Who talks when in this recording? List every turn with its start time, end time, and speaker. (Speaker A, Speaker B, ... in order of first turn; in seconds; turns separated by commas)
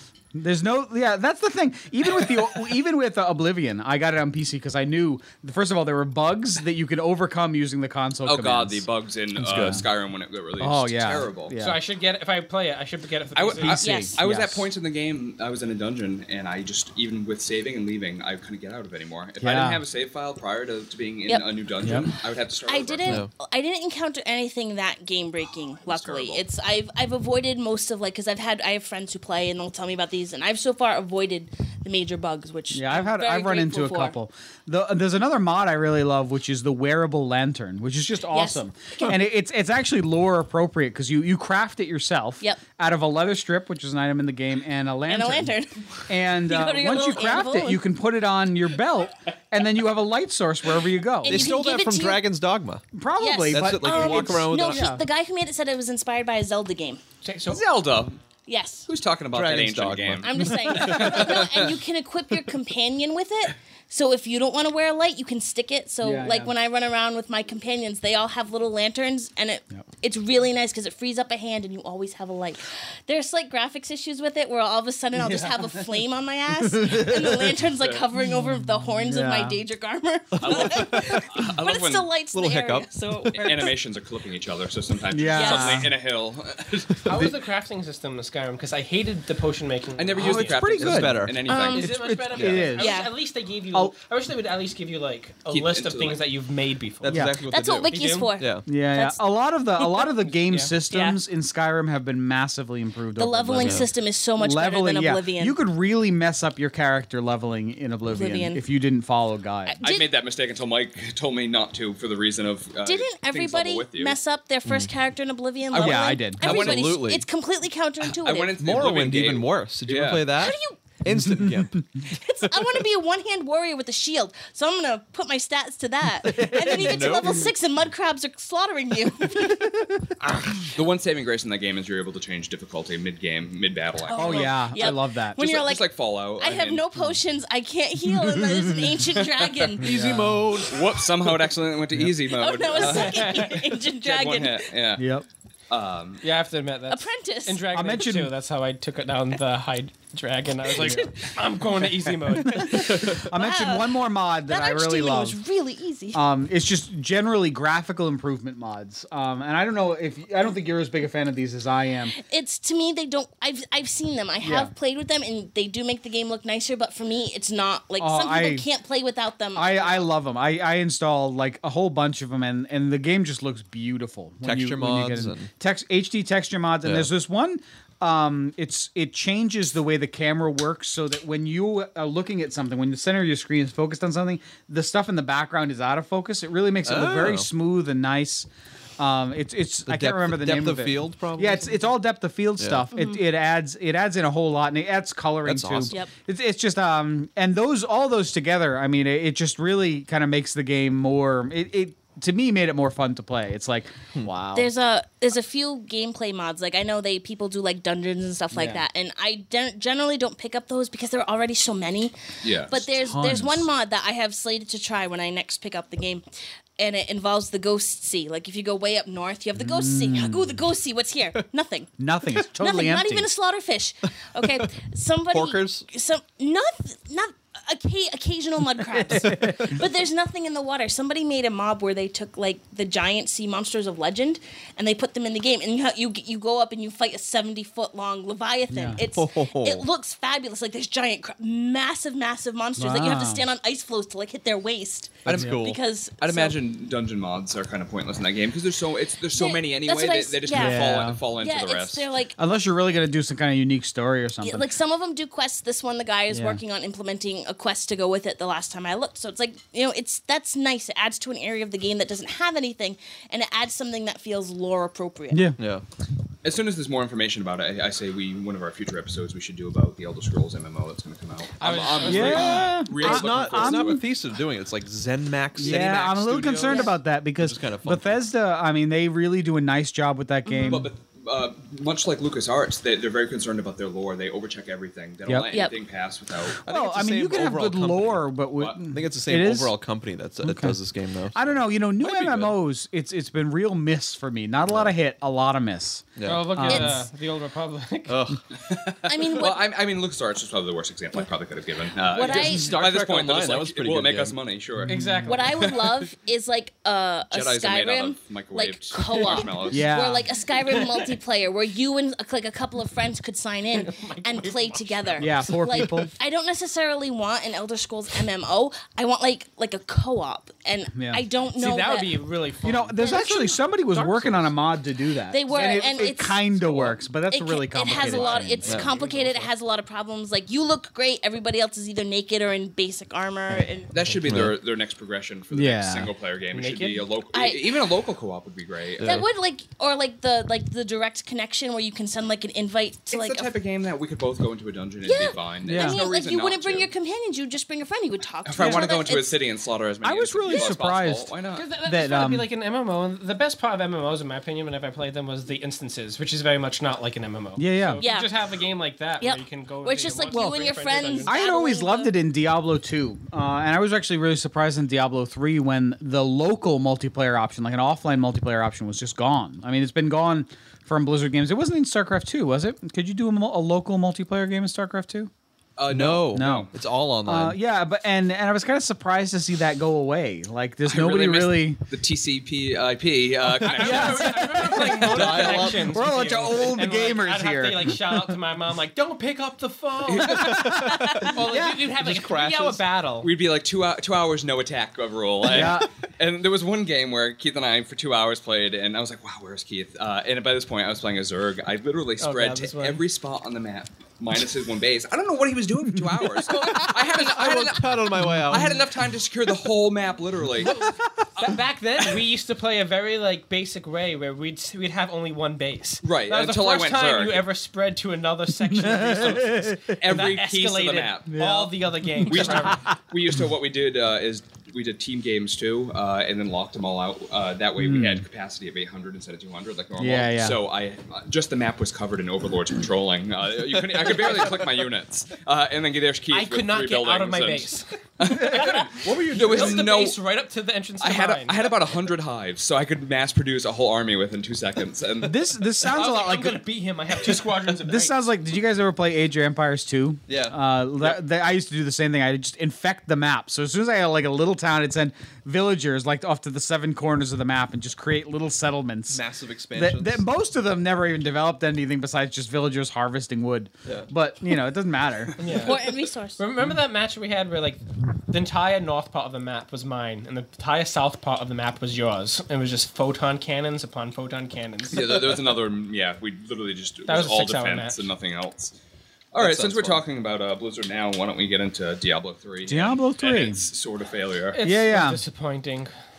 Speaker A: 0.3-9.9, Speaker B: 8.2-11.5, Speaker A: 10.6-11.8, Speaker C: 11.6-14.1, Speaker B: 13.3-23.2, Speaker A: 13.6-14.7, Speaker D: 13.8-14.2, Speaker A: 19.4-19.8, Speaker A: 21.8-22.1, Speaker D: 22.7-34.2, Speaker B: 25.8-26.4, Speaker A: 32.7-45.5, Speaker D: 38.3-39.1, Speaker D: 45.1-47.8, Speaker A: 46.1-51.5, Speaker D: 51.2-52.2, Speaker E: 51.2-52.8, Speaker A: 52.9-55.0, Speaker D: 53.2-57.0, Speaker E: 53.5-55.0, Speaker C: 57.2-57.6, Speaker B: 57.5-58.2, Speaker D: 58.5-58.9, Speaker B: 58.9-61.7, Speaker E: 59.3-61.7, Speaker D: 60.2-83.7, Speaker A: 66.0-66.5, Speaker A: 75.1-75.9, Speaker A: 76.6-77.6, Speaker A: 78.3-79.6, Speaker E: 80.3-81.4, Speaker B: 80.4-82.1, Speaker E: 82.3-83.6, Speaker B: 83.3-87.3, Speaker A: 85.1-85.9, Speaker D: 85.3-85.9, Speaker C: 87.0-90.7, Speaker E: 87.0-87.3, Speaker B: 90.0-92.7, Speaker A: 90.2-93.0, Speaker E: 90.8-91.4, Speaker D: 91.5-91.8, Speaker C: 91.7-97.4, Speaker D: 92.7-93.1, Speaker B: 95.5-96.2, Speaker E: 97.0-98.6, Speaker A: 97.1-97.4, Speaker D: 97.5-99.2, Speaker C: 97.9-98.3, Speaker A: 98.7-109.8, Speaker D: 99.8-100.0, Speaker C: 100.3-100.7, Speaker D: 100.9-101.2, Speaker D: 103.2-105.6, Speaker E: 103.6-103.9, Speaker D: 108.1-108.6, Speaker D: 109.7-110.1, Speaker B: 109.8-114.2, Speaker D: 112.8-118.6, Speaker E: 114.6-114.9, Speaker B: 115.7-117.0, Speaker A: 115.7-116.4, Speaker E: 116.4-117.2, Speaker B: 118.2-120.3, Speaker E: 118.6-122.5, Speaker D: 120.4-120.8, Speaker A: 121.1-121.6, Speaker D: 122.0-129.7, Speaker E: 126.2-127.5, Speaker A: 126.2-127.4, Speaker A: 129.4-130.6, Speaker B: 130.7-136.9, Speaker D: 134.0-139.8, Speaker A: 134.1-135.4, Speaker A: 138.1-139.0, Speaker E: 139.8-141.4, Speaker A: 139.8-140.4, Speaker B: 140.7-143.3, Speaker D: 142.3-144.7, Speaker C: 142.8-143.7, Speaker B: 144.0-145.1, Speaker A: 145.0-145.2, Speaker B: 145.7-146.2, Speaker C: 146.2-153.1, Speaker D: 146.9-147.7, Speaker A: 147.7-148.3, Speaker A: 150.7-151.1, Speaker A: 152.4-155.4, Speaker D: 152.6-156.2, Speaker E: 152.9-153.2, Speaker A: 156.1-162.1, Speaker D: 162.1-170.1, Speaker A: 164.4-164.7, Speaker A: 168.0-168.7, Speaker A: 169.5-204.7, Speaker E: 174.4-175.5, Speaker E: 186.8-187.5, Speaker E: 189.8-192.0, Speaker E: 192.6-192.8, Speaker D: 192.9-193.2, Speaker E: 195.4-196.0, Speaker D: 204.5-216.2, Speaker A: 208.5-208.8, Speaker B: 212.4-212.9, Speaker A: 213.0-213.7, Speaker D: 216.8-221.9, Speaker A: 219.6-220.6, Speaker A: 222.0-223.3, Speaker D: 222.6-246.6, Speaker E: 225.3-225.9, Speaker A: 229.0-229.8, Speaker E: 229.2-229.8, Speaker A: 238.7-239.1, Speaker E: 239.1-239.9, Speaker A: 242.8-243.5, Speaker E: 245.2-245.8, Speaker B: 246.2-252.1, Speaker D: 249.3-252.4, Speaker A: 250.5-251.2, Speaker A: 252.4-254.7, Speaker D: 254.4-265.5, Speaker A: 256.3-256.6, Speaker A: 265.3-265.6, Speaker E: 265.6-265.8, Speaker B: 266.4-274.0, Speaker C: 271.6-272.9, Speaker A: 272.0-274.0, Speaker E: 272.1-278.2, Speaker A: 275.6-280.9, Speaker D: 276.6-276.9, Speaker D: 280.4-280.9, Speaker B: 280.7-286.6, Speaker A: 285.2-285.5, Speaker E: 286.6-288.3, Speaker A: 286.6-289.8, Speaker E: 288.9-291.6, Speaker A: 290.4-290.8, Speaker A: 291.3-297.1, Speaker B: 292.0-292.6, Speaker E: 294.7-294.9, Speaker E: 296.2-296.6, Speaker C: 296.2-298.2, Speaker D: 296.7-297.0, Speaker E: 298.1-298.4, Speaker B: 298.6-306.0, Speaker D: 299.0-299.6, Speaker D: 302.1-302.8, Speaker E: 302.1-304.4, Speaker A: 304.9-305.3, Speaker C: 304.9-305.4, Speaker D: 305.2-322.1, Speaker B: 307.3-309.9, Speaker A: 309.7-310.3, Speaker C: 313.7-315.6, Speaker A: 315.2-316.1, Speaker A: 320.9-321.2, Speaker C: 321.6-323.3, Speaker A: 322.6-328.7, Speaker D: 323.0-323.6, Speaker C: 323.9-324.5, Speaker D: 325.3-326.8, Speaker D: 327.3-333.9, Speaker C: 327.9-329.5, Speaker B: 333.9-339.2, Speaker E: 334.3-334.5, Speaker A: 335.5-336.1, Speaker C: 336.5-337.1, Speaker D: 337.3-337.8, Speaker E: 339.0-339.2, Speaker D: 339.0-343.5, Speaker B: 343.1-346.9, Speaker D: 345.0-349.4, Speaker A: 345.6-346.0, Speaker B: 348.4-351.6, Speaker A: 348.6-348.9, Speaker A: 350.0-351.3, Speaker C: 351.5-361.4, Speaker A: 351.8-352.5, Speaker A: 357.6-358.0, Speaker D: 358.0-358.3, Speaker D: 359.2-362.2, Speaker A: 360.3-360.7, Speaker A: 361.2-375.3, Speaker B: 375.8-376.7, Speaker E: 375.9-377.6, Speaker A: 376.3-376.7, Speaker A: 377.2-381.8, Speaker B: 380.9-385.8, Speaker C: 383.6-393.3, Speaker A: 383.7-385.1, Speaker E: 384.9-386.0, Speaker A: 385.8-388.2, Speaker A: 390.2-391.8, Speaker E: 390.7-392.8, Speaker B: 393.2-410.8, Speaker A: 395.4-395.9, Speaker C: 402.2-403.0, Speaker E: 406.6-408.8, Speaker A: 408.2-408.7, Speaker C: 410.6-422.9, Speaker B: 416.0-417.5, Speaker A: 418.7-420.1, Speaker B: 419.2-421.4, Speaker A: 421.3-422.8, Speaker B: 422.2-440.2, Speaker A: 427.8-428.2, Speaker A: 430.0-430.6, Speaker E: 434.1-434.7, Speaker C: 436.3-441.7, Speaker E: 438.9-439.9, Speaker B: 441.0-445.4, Speaker A: 445.2-446.7, Speaker C: 445.9-448.1, Speaker A: 447.7-459.2, Speaker E: 450.3-451.2, Speaker E: 459.1-460.2, Speaker A: 459.7-465.4, Speaker C: 465.4-465.8, Speaker D: 465.5-466.4, Speaker C: 466.4-475.2, Speaker B: 474.9-478.8, Speaker C: 477.1-478.1, Speaker B: 479.3-484.6, Speaker E: 479.4-480.0, Speaker A: 482.6-483.6, Speaker C: 484.5-485.9, Speaker A: 484.6-485.2